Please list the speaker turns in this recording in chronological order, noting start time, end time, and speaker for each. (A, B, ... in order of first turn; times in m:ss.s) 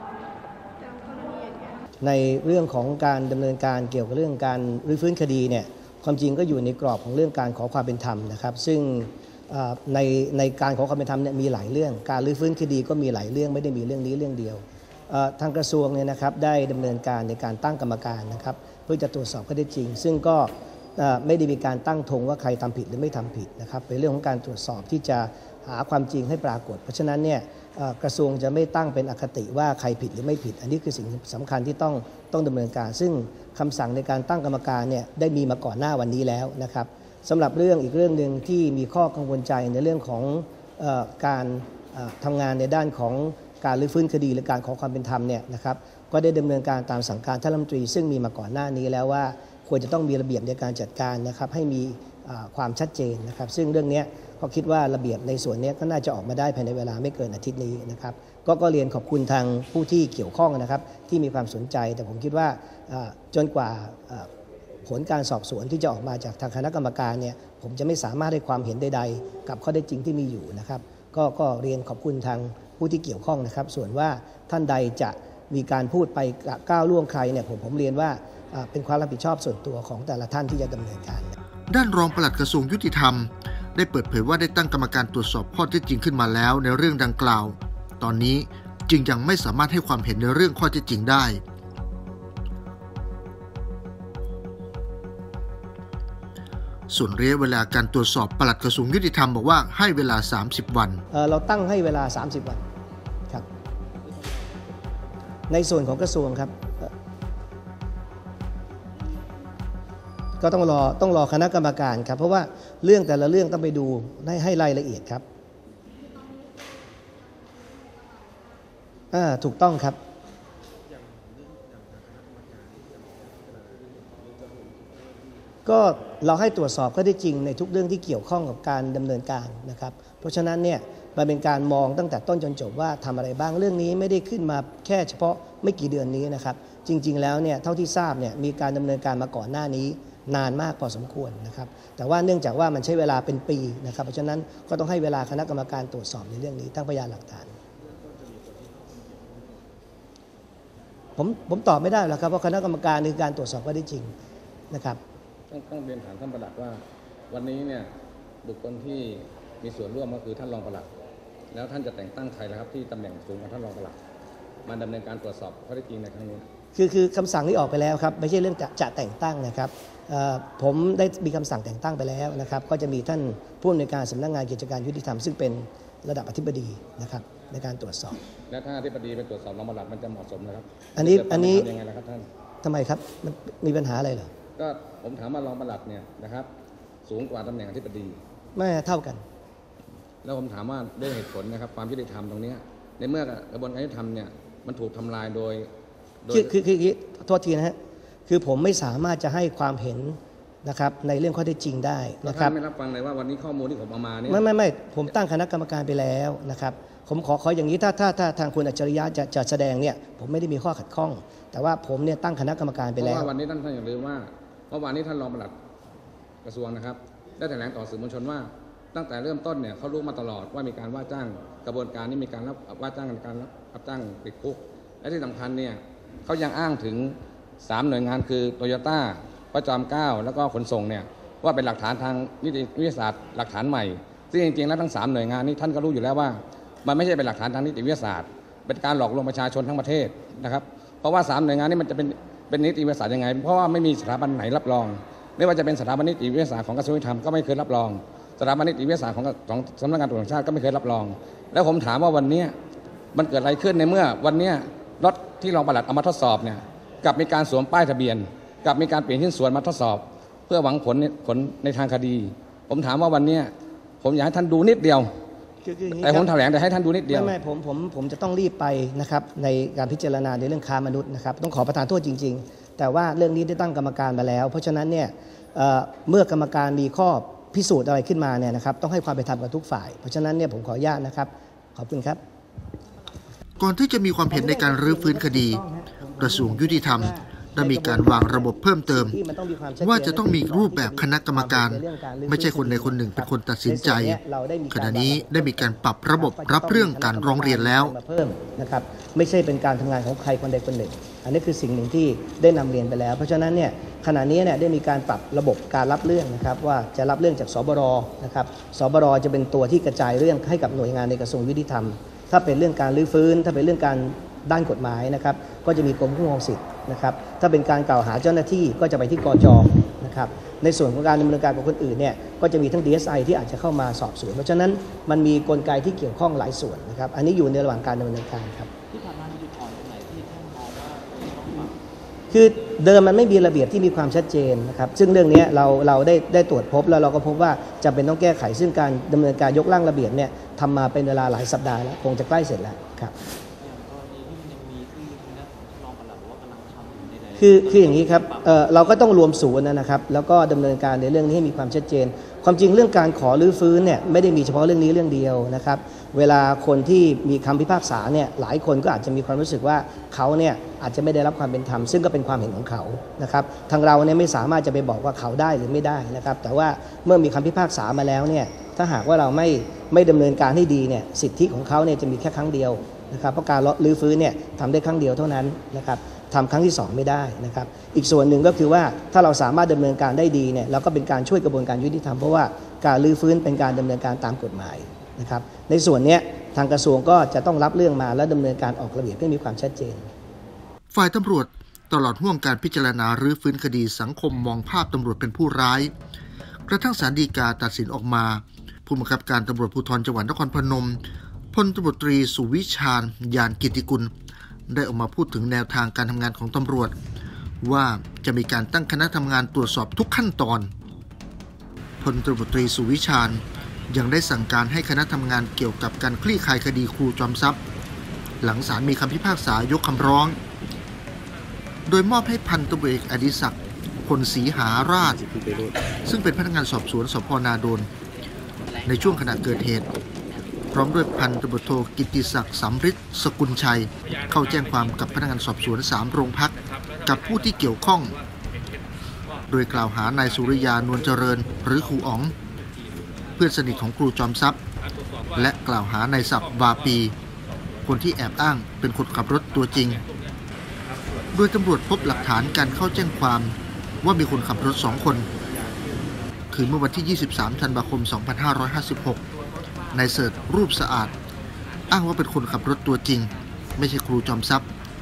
0:02.0-1:04.3 A
1:04.8-1:21.4 A
1:21.7-1:31.4 B
1:36.9-1:41.0 B
1:41.1-1:42.6 A
1:45.5-1:46.9 A
1:50.4-1:55.2 A
1:59.1-2:00.0 A
2:05.7-2:27.6 A
2:31.2-2:34.1 A
2:34.7-2:35.0 A
2:35.5-2:37.9 C
2:38.4-2:40.9 C
2:41.5-2:44.0 C
2:44.7-2:46.4 C
2:46.8-2:58.2 A
2:58.5-3:02.3 C
3:01.0-3:01.7 A
3:02.6-3:04.3 A
3:04.6-3:06.5 C
3:07.1-3:08.2 C
3:08.6-3:09.2 A
3:10.2-3:15.7 C
3:16.2-3:16.5 C
3:16.3-3:17.8 A
3:18.3-3:22.6 A
3:22.2-3:24.4 C
3:24.3-3:33.3 A
3:33.0-3:35.5 C
3:36.4-4:12.5 C
4:13.1-4:25.1 C
4:25.6-4:26.3 A
4:26.0-4:27.3 C
4:27.1-4:42.2 A
4:43.6-4:45.6 B
4:44.3-5:28.7 A
4:46.2-4:49.2 B
4:49.8-4:54.2 B
4:54.7-4:58.0 B
5:28.9-5:31.8 D
5:32.3-5:43.1 A
5:43.6-5:48.7 D
5:47.4-6:30.1 A
6:30.9-6:35.9 B
6:36.7-6:41.0 B
6:41.5-6:44.1 B
6:44.7-6:47.0 B
6:47.6-6:50.7 B
6:52.0-6:57.6 B
6:58.4-7:00.4 B
7:01.9-7:05.3 B
7:06.1-7:07.9 B
7:08.9-7:09.9 B
7:10.7-7:18.2 B
7:19.5-7:22.4 B
7:22.7-7:23.5 D
7:23.4-7:24.6 B
7:25.4-7:27.2 B
7:27.9-7:30.0 B
7:31.3-7:35.3 B
7:36.5-7:39.2 B
7:39.9-7:40.8 D
7:39.9-7:41.1 B
7:41.9-7:44.7 B
7:43.3-7:43.9 D